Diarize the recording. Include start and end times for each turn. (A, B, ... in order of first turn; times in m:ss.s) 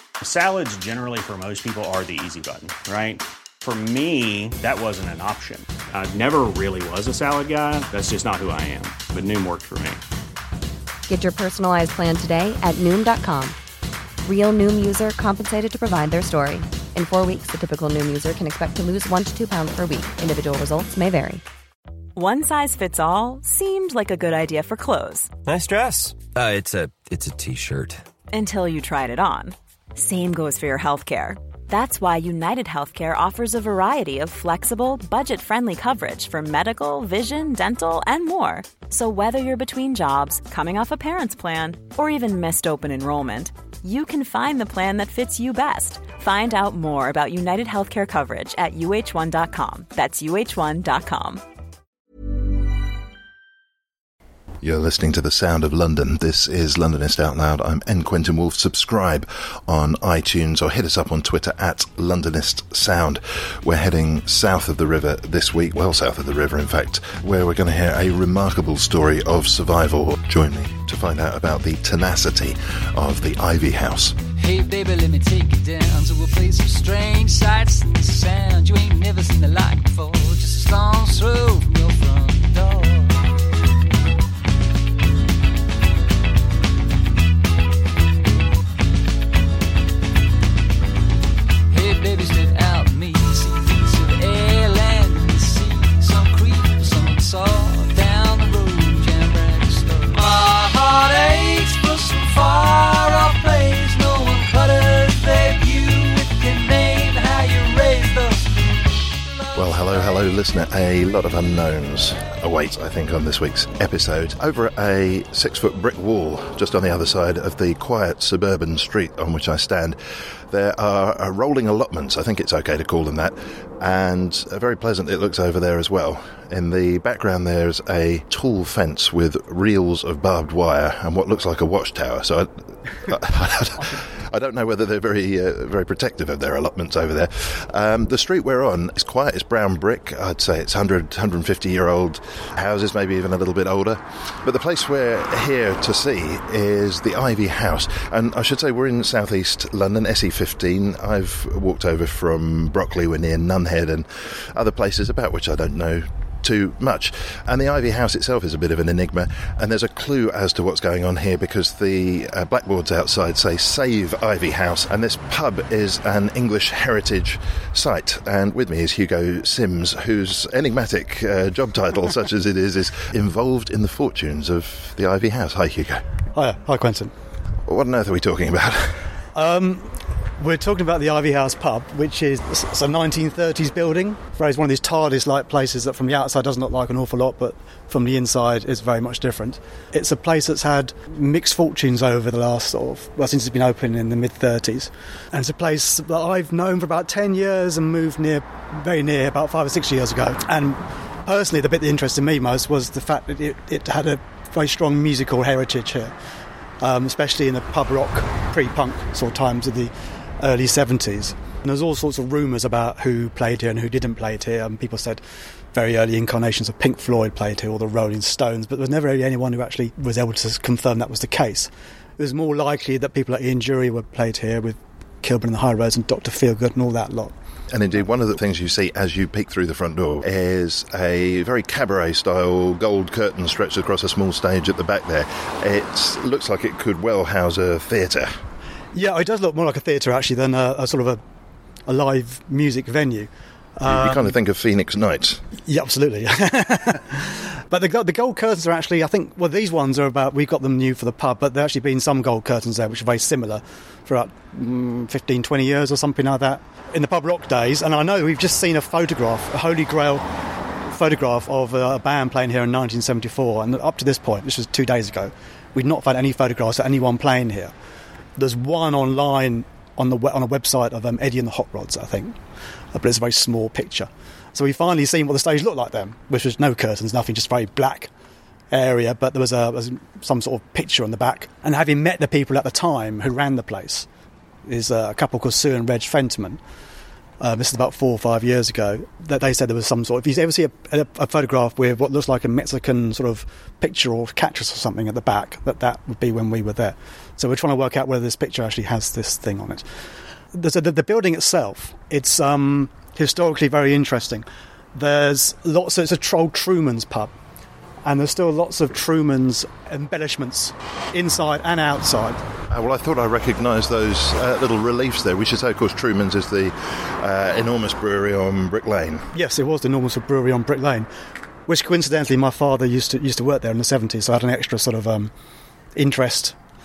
0:00.2-0:10.0 A
0:11.1-0:13.6 B
0:14.2-0:21.4 B
0:22.2-0:25.3 C
0:25.4-0:28.0 D
0:28.3-0:51.4 C
0:54.6-1:14.2 E
1:14.4-1:23.4 F
1:31.7-1:48.8 F
1:49.6-2:56.0 E
2:56.3-2:57.1 G
2:57.7-2:59.1 E
2:59.3-3:26.1 G
3:26.8-3:35.2 G
3:35.7-3:47.4 G
3:47.7-3:58.4 E
3:58.9-4:01.2 G
4:01.9-4:04.3 G
4:03.8-4:05.4 E
4:05.7-4:20.3 G
4:20.9-4:27.7 G
4:28.4-4:32.4 G
4:32.9-4:38.1 G
4:38.7-4:44.1 G
4:44.7-4:46.6 G
4:47.4-4:59.8 G
5:00.5-5:07.3 G
5:08.0-5:12.4 G
5:12.7-5:19.3 E
5:19.3-5:21.1 G
5:21.7-5:25.3 G
5:26.0-5:26.6 G